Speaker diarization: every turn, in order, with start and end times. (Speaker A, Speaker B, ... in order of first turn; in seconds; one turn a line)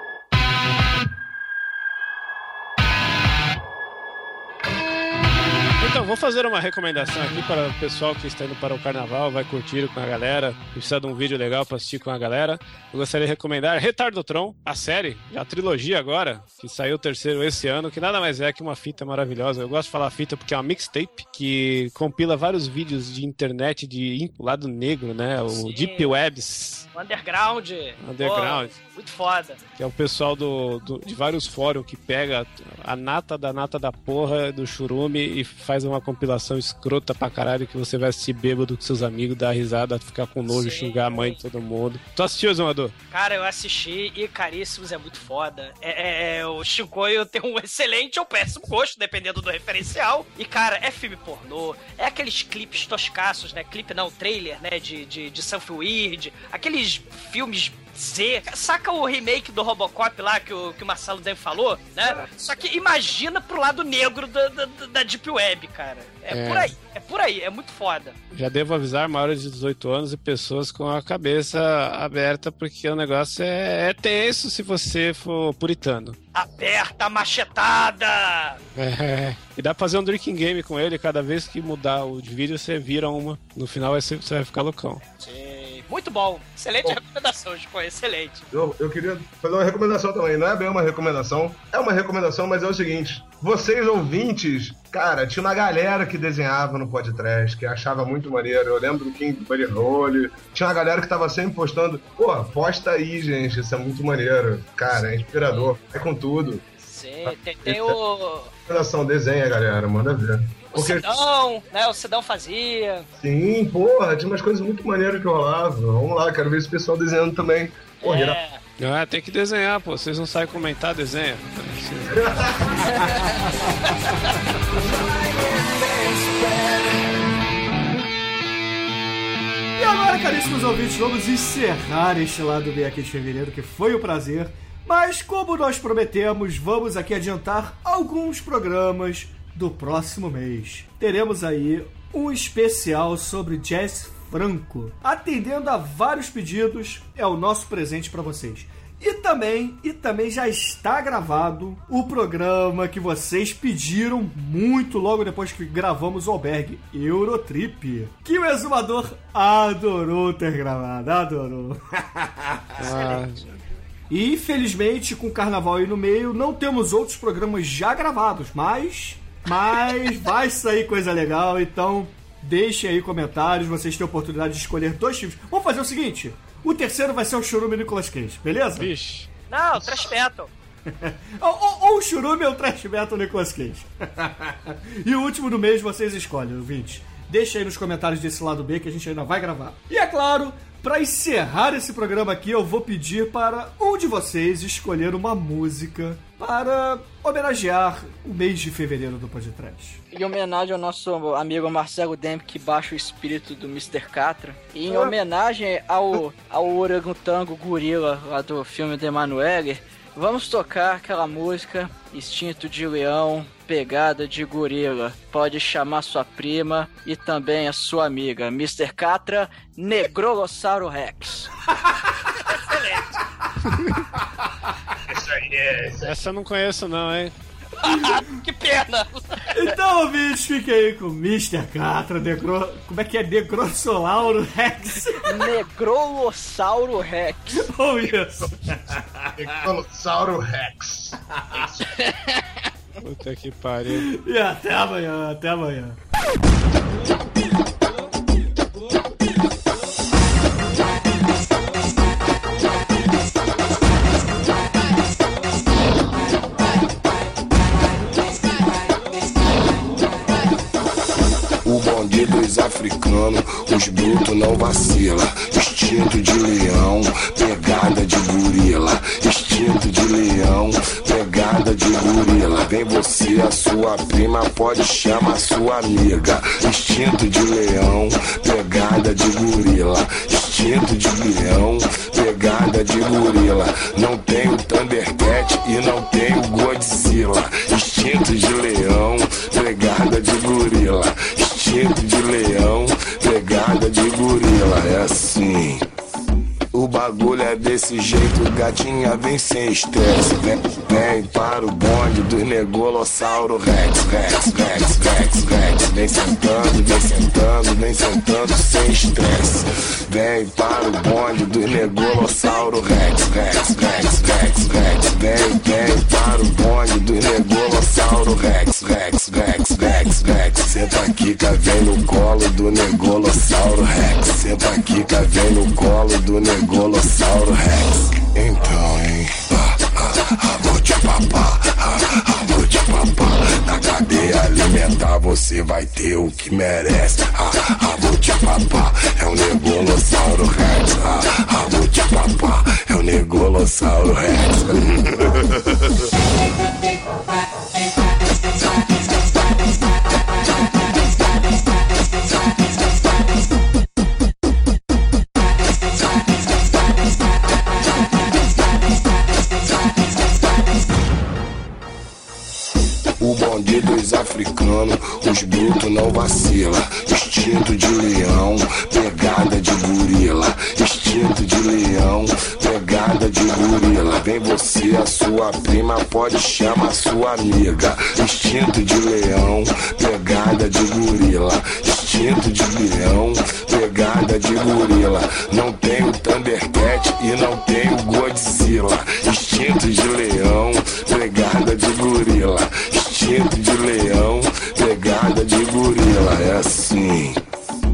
Speaker A: 5.8-26.9
Speaker B: 25.5-26.1
Speaker B: 26.9-29.6
Speaker A: 28.0-28.7
Speaker A: 29.8-42.9
Speaker B: 40.5-41.4
Speaker B: 43.1-68.2
Speaker A: 66.3-66.7
Speaker A: 68.3-76.2
Speaker B: 76.3-78.6
Speaker A: 78.7-85.0
Speaker B: 85.2-88.4
Speaker C: 88.5-106.6
Speaker B: 105.3-105.7
Speaker B: 106.8-108.5
Speaker C: 107.2-108.0
Speaker C: 108.7-111.0
Speaker B: 110.7-113.1
Speaker C: 113.2-118.4
Speaker B: 118.0-118.6
Speaker A: 118.8-122.3
Speaker C: 122.1-122.8
Speaker D: 129.8-162.6
Speaker A: 162.8-163.4
Speaker B: 162.8-163.3
Speaker D: 164.1-178.9
Speaker A: 178.8-179.3
Speaker B: 179.5-180.5
Speaker D: 180.9-200.0
Speaker E: 200.1-221.5
Speaker B: 222.4-223.2
Speaker C: 225.1-226.2
Speaker A: 226.0-227.3
Speaker B: 227.8-229.7
Speaker D: 229.5-235.5
Speaker E: 235.2-237.7
Speaker D: 237.5-239.5
Speaker C: 239.4-241.8
Speaker A: 243.0-244.1
Speaker D: 243.9-246.0
Speaker F: 261.6-295.8
Speaker F: 296.7-345.7
Speaker F: 363.2-397.4